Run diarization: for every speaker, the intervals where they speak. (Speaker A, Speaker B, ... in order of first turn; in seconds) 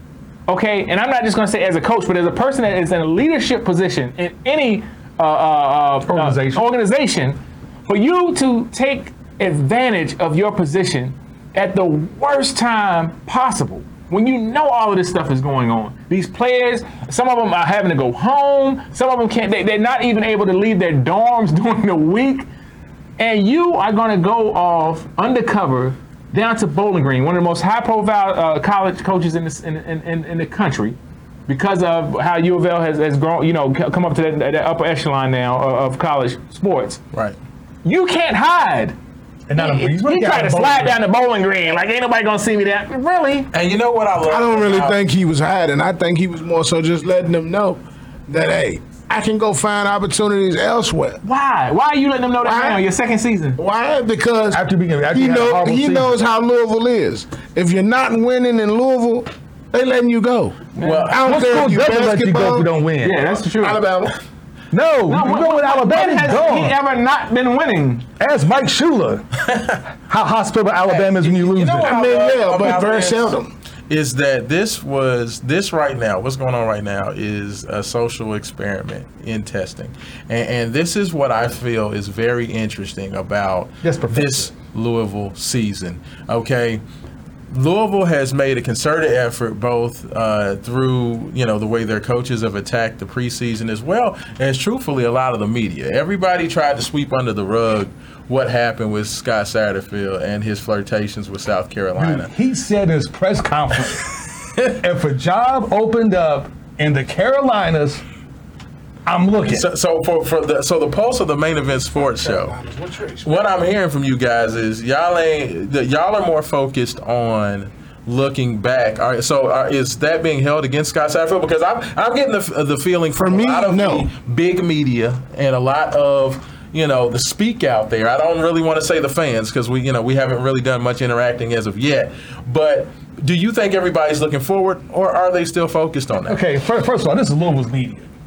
Speaker A: 0.5-22.5, 23.2-31.0, 31.5-37.0, 37.8-39.0, 39.6-43.5, 51.2-53.6, 63.0-63.8, 65.1-68.1
Speaker B: 6.0-6.7, 39.5-41.0, 54.5-56.2, 61.1-63.3, 64.7-66.8, 68.2-69.4, 70.1-71.9, 83.8-84.5, 102.0-108.0, 109.1-109.7, 136.3-138.1
Speaker C: 37.1-37.4, 43.5-45.0, 60.8-61.3, 70.9-73.4, 73.9-86.8, 87.5-102.3, 109.5-112.6, 113.2-136.4
Speaker D: 44.2-51.2, 52.5-52.8, 53.6-62.7, 63.6-64.1, 71.8-73.5, 112.1-113.3, 123.1-124.1